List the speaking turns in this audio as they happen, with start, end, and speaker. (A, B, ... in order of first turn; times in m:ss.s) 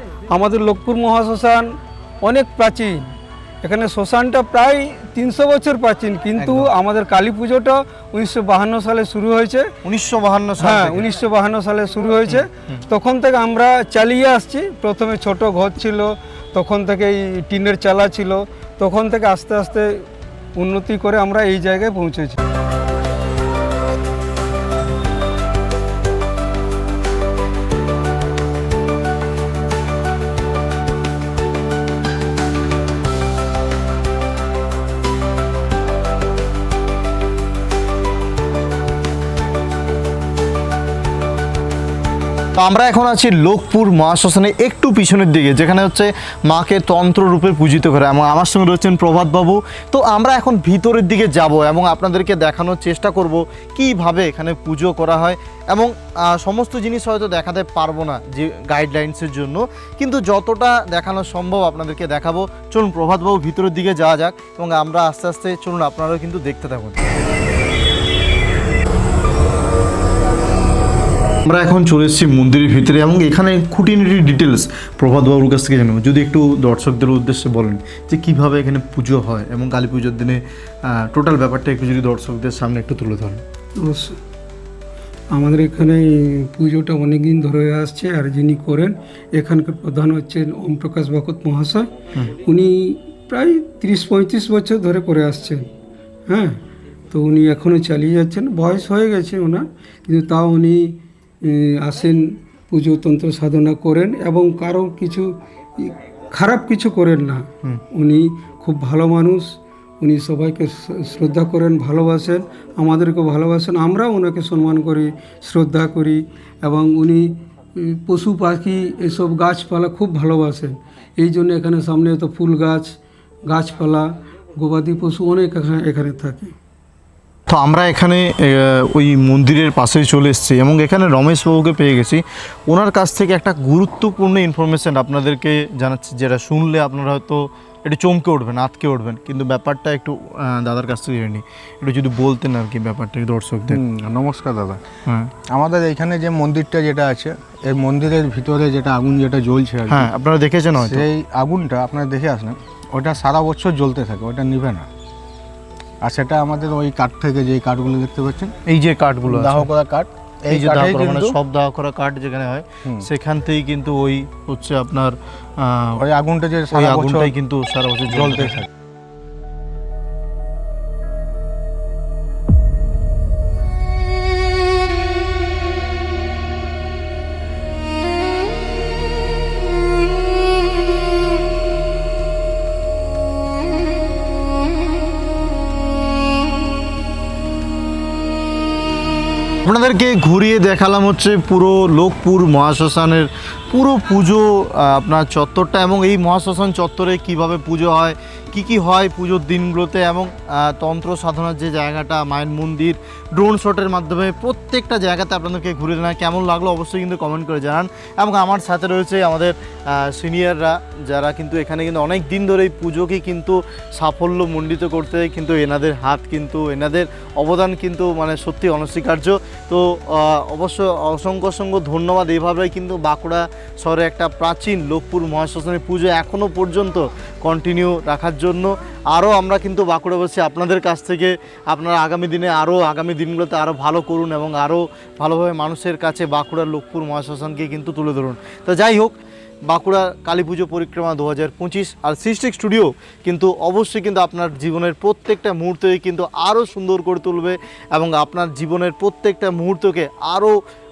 0:00.3-0:01.7 A
0:02.2-0:03.1 A
0:03.6-0:09.7 A
0:06.4-0:06.7 B
0:09.8-0:11.0 B
0:10.6-0:22.4 A
0:12.3-0:12.8 B
0:42.6-1:07.0 B
1:11.4-1:23.4 B
1:23.8-1:24.2 A
1:25.3-1:35.7 A
1:36.3-1:36.6 A
1:37.1-2:06.5 A
2:07.5-2:23.8 B
2:23.7-2:24.8 C
2:25.5-2:30.1 C
2:29.9-2:31.1 B
2:30.8-2:34.9 C
2:36.0-2:38.5 C
2:38.7-2:39.7 B
2:39.3-2:41.4 C
2:40.5-2:46.0 B
2:46.0-2:47.3 C
2:46.7-2:48.6 B
2:48.1-2:48.7 C
3:09.6-3:59.2 B
3:59.7-4:10.6 B